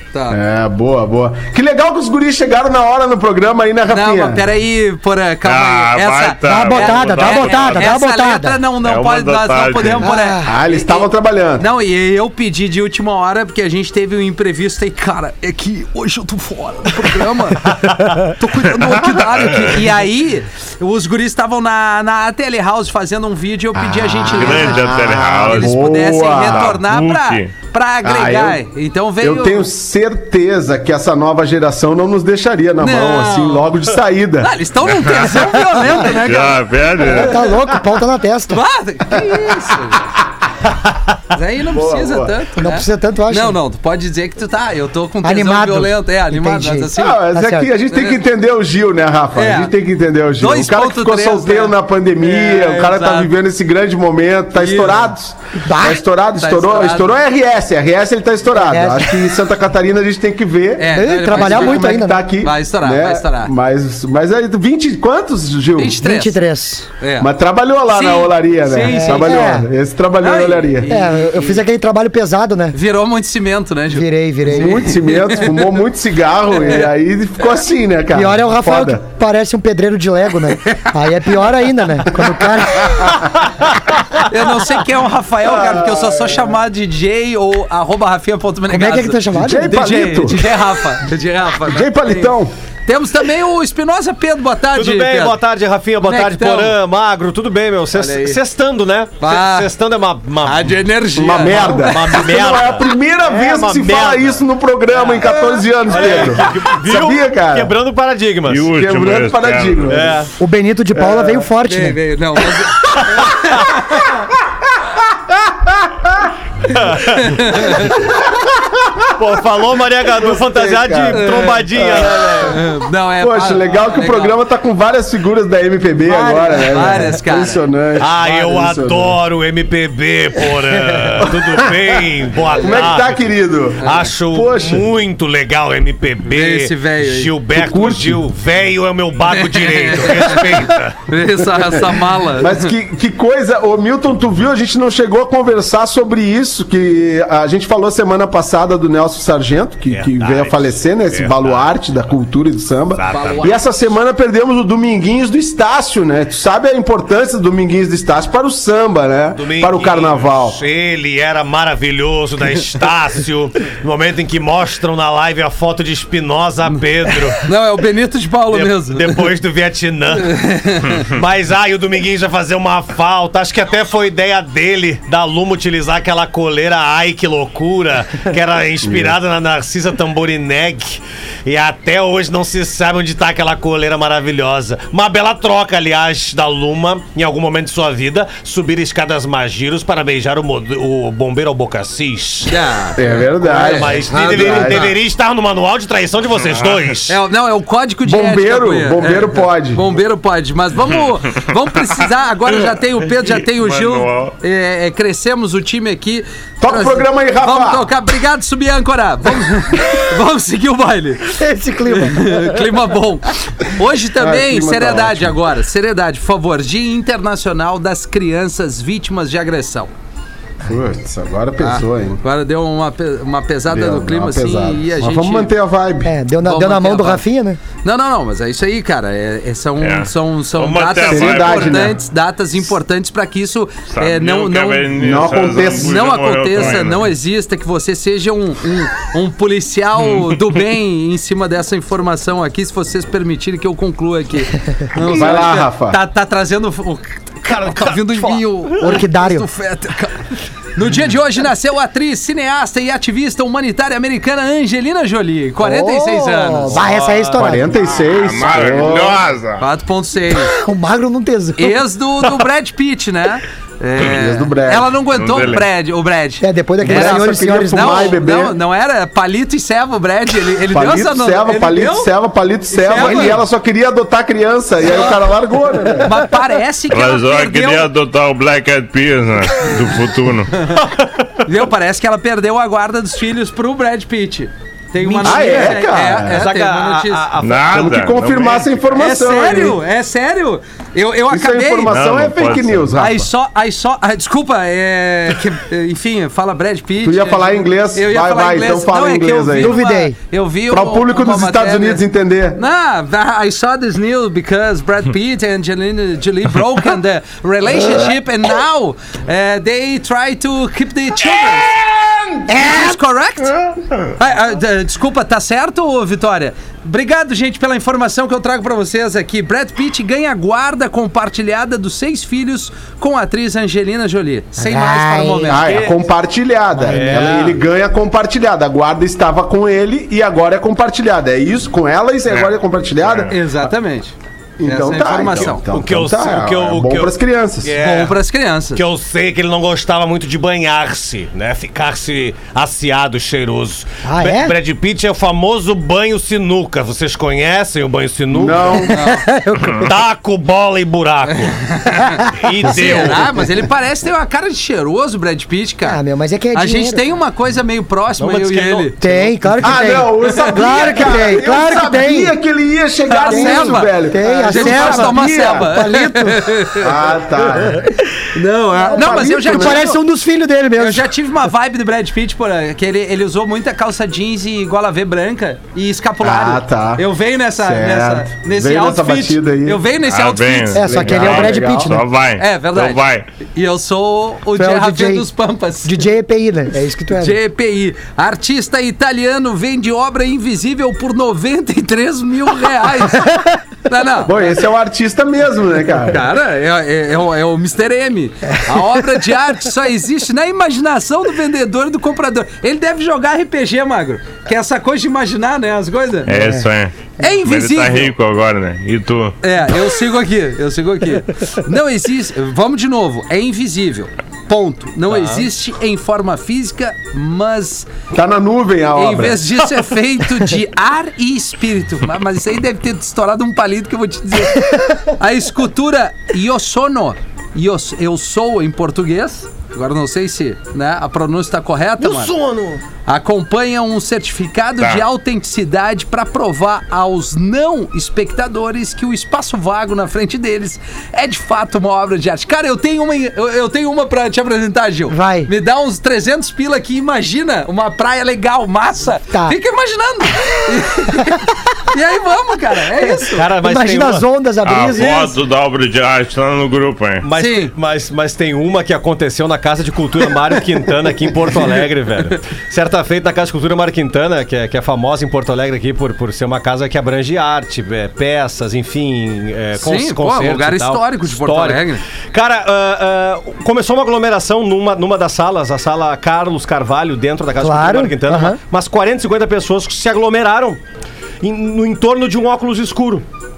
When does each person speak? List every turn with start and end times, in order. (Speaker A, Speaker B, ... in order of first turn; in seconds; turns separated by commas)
Speaker A: 0.1-0.4, Speaker B: 0.3-4.5, Speaker A: 3.9-11.1, Speaker C: 5.4-7.9, Speaker D: 6.5-8.6, Speaker C: 8.8-10.1, Speaker D: 10.0-10.5, Speaker B: 10.4-11.7, Speaker A: 11.6-29.7, Speaker C: 18.8-19.8, Speaker B: 23.8-26.8, Speaker C: 24.3-27.5, Speaker B: 28.0-28.6, Speaker B: 29.2-34.5, Speaker A: 32.8-33.7, Speaker A: 34.4-37.3, Speaker C: 35.0-35.3, Speaker C: 35.9-37.5, Speaker D: 37.0-38.6, Speaker A: 38.5-40.1, Speaker A: 41.3-47.3, Speaker B: 41.7-42.4, Speaker D: 42.6-43.6, Speaker D: 45.2-47.7, Speaker B: 47.0-66.0, Speaker A: 47.9-48.2, Speaker A: 49.4-49.7, Speaker A: 50.4-53.3, Speaker A: 54.6-55.1, Speaker D: 55.6-56.0, Speaker A: 56.4-57.2, Speaker D: 58.5-59.1, Speaker A: 60.8-63.5, Speaker D: 60.9-62.2, Speaker A: 65.8-66.4, Speaker D: 66.0-66.9, Speaker A: 67.0-67.3, Speaker B: 67.2-70.9, Speaker A: 67.9-69.6, Speaker D: 68.9-69.7, Speaker A: 70.2-71.6, Speaker D: 70.9-72.8, Speaker A: 72.7-75.8, Speaker D: 73.9-74.8, Speaker B: 74.5-79.0, Speaker A: 76.6-76.9, Speaker D: 78.1-83.3, Speaker A: 84.2-92.3, Speaker B: 85.4-86.4, Speaker D: 88.7-89.8, Speaker B: 89.3-90.4, Speaker B: 91.6-92.5, Speaker A: 92.9-95.4, Speaker E: 94.8-100.8, Speaker A: 96.0-96.8, Speaker A: 97.9-98.4, Speaker A: 99.2-99.7, Speaker A: 100.4-102.3, Speaker B: 101.1-107.7, Speaker E: 101.7-104.4, Speaker A: 104.9-106.5, Speaker E: 105.9-108.7, Speaker C: 108.5-110.0, Speaker B: 108.7-110.2, Speaker E: 109.9-110.3, Speaker D: 110.4-112.0, Speaker B: 110.9-111.5, Speaker A: 111.7-114.3, Speaker B: 114.9-116.3, Speaker E: 116.7-117.8, Speaker A: 116.8-118.0, Speaker B: 117.8-119.1, Speaker E: 119.2-122.6, Speaker B: 120.0-122.5, Speaker A: 121.1-124.4, Speaker B: 123.2-129.2, Speaker D: 126.1-126.7, Speaker A: 126.5-127.6, Speaker E: 128.0-133.2, Speaker B: 131.2-134.9, Speaker E: 133.8-141.1, Speaker A: 133.8-134.1, Speaker A: 136.3-137.4, Speaker B: 137.5-138.2, Speaker A: 139.3-142.7, Speaker B: 141.8-160.6, Speaker E: 149.9-152.1, Speaker E: 152.9-153.6, Speaker A: 153.1-153.7, Speaker E: 159.3-167.5, Speaker A: 167.3-169.3, Speaker E: 168.5-192.6, Speaker A: 170.2-171.1, Speaker B: 178.8-179.2, Speaker A: 192.5-194.9, Speaker B: 193.0-195.0, Speaker E: 193.4-197.2, Speaker C: 196.4-196.8, Speaker A: 197.1-219.9, Speaker B: 198.1-199.8, Speaker C: 203.3-204.3, Speaker B: 206.6-207.9, Speaker D: 211.3-212.8, Speaker B: 214.1-215.4, Speaker B: 220.7-222.2, Speaker A: 221.6-225.5, Speaker B: 223.7-226.1, Speaker D: 226.0-227.6, Speaker A: 226.4-227.2, Speaker A: 227.8-234.9, Speaker C: 229.8-231.9, Speaker B: 231.1-232.0, Speaker C: 233.9-237.1, Speaker B: 235.0-236.8, Speaker A: 235.7-256.8, Speaker B: 244.9-246.0, Speaker E: 247.5-248.9, Speaker D: 248.8-249.5, Speaker D: 255.6-257.7, Speaker E: 256.7-258.9, Speaker B: 257.3-259.3, Speaker C: 258.1-259.6, Speaker A: 259.6-260.6, Speaker D: 260.4-261.8, Speaker A: 261.6-272.1, Speaker B: 264.0-264.9, Speaker C: 265.1-265.7, Speaker D: 266.4-268.1, Speaker B: 266.8-268.6, Speaker B: 270.7-276.2, Speaker A: 272.7-273.4, Speaker A: 274.8-275.2, Speaker A: 276.0-277.9, Speaker C: 276.9-280.6, Speaker A: 281.4-287.3, Speaker B: 285.0-286.5, Speaker E: 285.2-285.8, Speaker E: 286.3-288.0, Speaker C: 287.4-288.8, Speaker B: 287.7-289.8, Speaker A: 288.9-292.0, Speaker B: 291.3-293.3, Speaker C: 291.9-292.9, Speaker A: 292.9-302.0, Speaker B: 297.0-299.8, Speaker D: 299.6-300.2, Speaker B: 300.7-302.6, Speaker A: 302.6-311.7, Speaker A: 312.5-313.6, Speaker D: 312.5-312.9, Speaker A: 314.2-326.0, Speaker D: 324.6-325.6, Speaker B: 325.5-333.7, Speaker E: 326.8-327.6, Speaker C: 332.3-333.4, Speaker A: 333.3-335.6, Speaker B: 334.6-337.7, Speaker E: 335.7-338.2, Speaker A: 337.8-338.8, Speaker E: 338.8-348.9, Speaker D: 344.0-344.6, Speaker B: 348.3-349.0, Speaker A: 348.9-349.3, Speaker D: 349.0-349.9, Speaker E: 349.8-351.7, Speaker A: 351.3-356.0, Speaker E: 352.3-353.5, Speaker D: 355.8-357.0, Speaker A: 356.5-359.0, Speaker E: 358.2-359.8, Speaker D: 359.0-362.4, Speaker B: 359.6-365.8, Speaker A: 360.2-361.2, Speaker A: 363.1-367.1, Speaker D: 363.2-366.7, Speaker B: 366.8-367.9, Speaker A: 368.2-370.0, Speaker D: 368.8-371.1, Speaker B: 368.9-370.0, Speaker A: 370.8-380.9, Speaker B: 376.2-377.1, Speaker B: 377.6-379.8, Speaker C: 380.1-383.3, Speaker D: 380.7-382.0, Speaker B: 380.8-382.0, Speaker A: 382.4-383.0, Speaker A: 383.5-386.1, Speaker D: 384.6-385.3, Speaker D: 385.8-387.4, Speaker A: 387.1-394.5, Speaker B: 394.2-396.3, Speaker A: 396.1-406.4, Speaker C: 406.3-409.4, Speaker D: 406.3-406.6, Speaker A: 407.2-408.1, Speaker A: 409.4-417.9, Speaker E: 415.1-415.5, Speaker B: 418.1-419.7, Speaker A: 419.0-432.3, Speaker E: 432.0-432.8, Speaker A: 433.1-453.5, Speaker D: 445.1-445.5, Speaker D: 449.3-449.6, Speaker D: 453.2-455.4, Speaker E: 453.3-454.3, Speaker C: 454.6-457.2, Speaker A: 454.9-455.3, Speaker E: 457.2-480.8, Speaker A: 457.4-457.7, Speaker A: 469.8-472.0, Speaker D: 477.6-478.6, Speaker E: 481.4-483.2